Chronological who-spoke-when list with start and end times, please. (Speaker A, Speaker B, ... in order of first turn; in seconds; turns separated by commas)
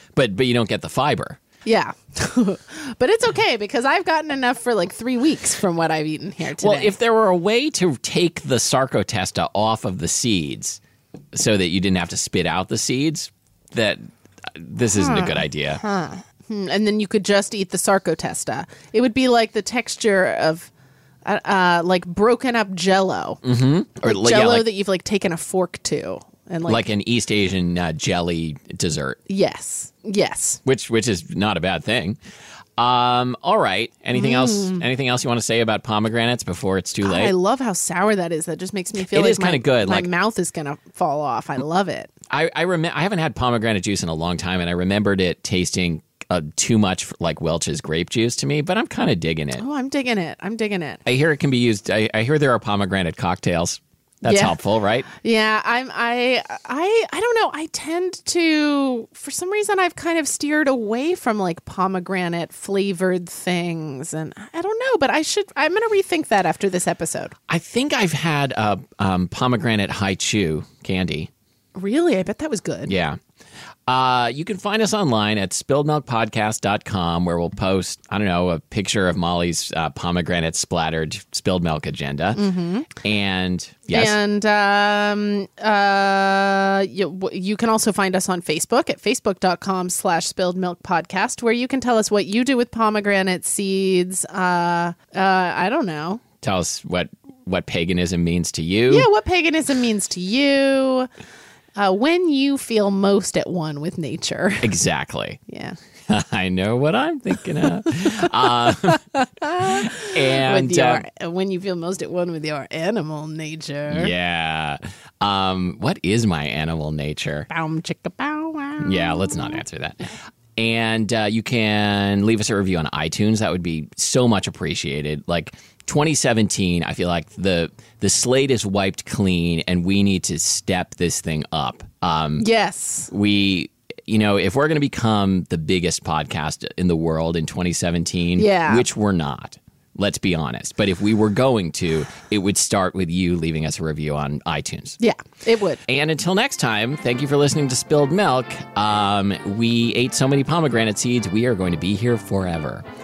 Speaker A: 0.1-1.4, Speaker B: 1.7-7.0, Speaker A: 6.6-10.8, Speaker A: 11.3-15.8, Speaker B: 14.9-20.7, Speaker B: 21.2-23.4, Speaker A: 23.4-24.7, Speaker B: 24.0-26.9, Speaker A: 26.7-29.2, Speaker B: 29.3-30.6, Speaker A: 30.6-32.2, Speaker A: 32.8-37.4, Speaker B: 34.1-34.8, Speaker B: 37.0-42.1, Speaker A: 39.0-40.1, Speaker A: 42.3-49.6, Speaker B: 49.6-51.0, Speaker A: 51.1-55.1, Speaker B: 54.2-67.3, Speaker A: 67.5-71.3, Speaker B: 71.8-72.9, Speaker A: 72.9-73.2, Speaker A: 73.9-82.4, Speaker B: 82.3-82.9, Speaker A: 83.0-84.2, Speaker B: 83.9-96.2, Speaker A: 96.4-99.1, Speaker B: 98.9-101.1, Speaker B: 101.8-104.7, Speaker A: 104.6-105.4, Speaker B: 105.5-105.8, Speaker A: 106.1-109.0, Speaker B: 108.7-114.1, Speaker A: 109.6-111.0, Speaker A: 113.9-117.5, Speaker B: 117.5-119.6, Speaker A: 118.8-132.5, Speaker B: 132.4-133.1, Speaker A: 133.1-145.0, Speaker B: 138.4-138.9, Speaker B: 145.0-145.8, Speaker A: 145.9-152.8